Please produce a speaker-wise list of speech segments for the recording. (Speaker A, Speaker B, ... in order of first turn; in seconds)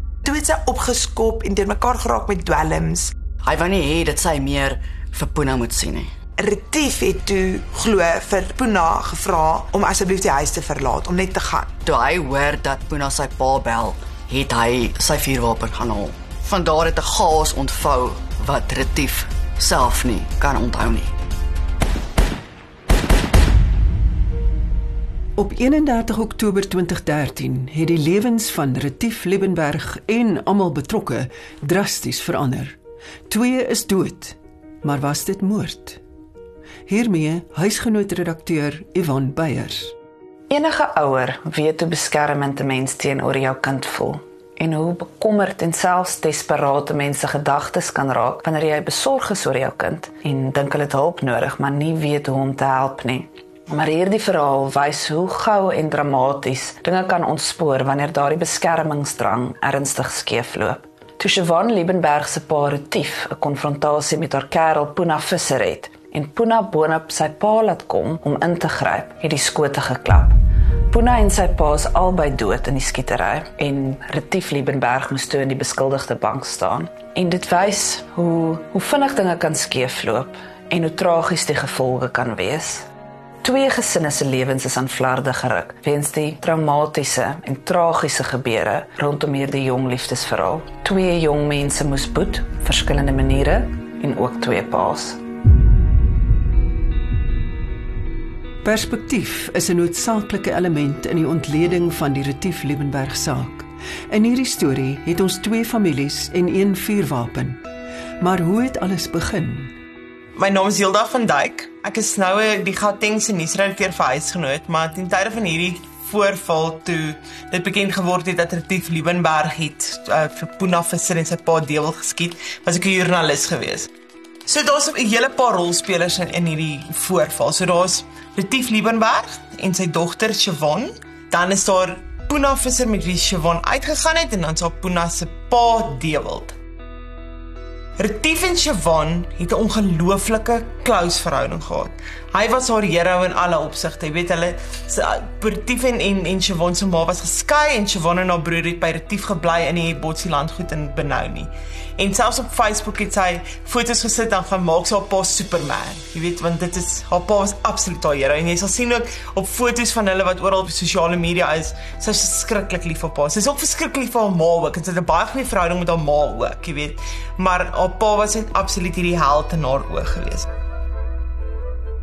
Speaker A: 0.2-3.1, 6.4-11.7
Speaker B: 3.4-6.1, 11.8-21.1
Speaker C: 25.4-32.8, 33.3-36.0, 36.9-39.9, 98.6-107.6, 108.2-109.7
Speaker D: 40.5-70.4, 70.9-82.8, 83.4-95.2
Speaker E: 110.3-123.9, 124.5-136.6, 138.0-170.5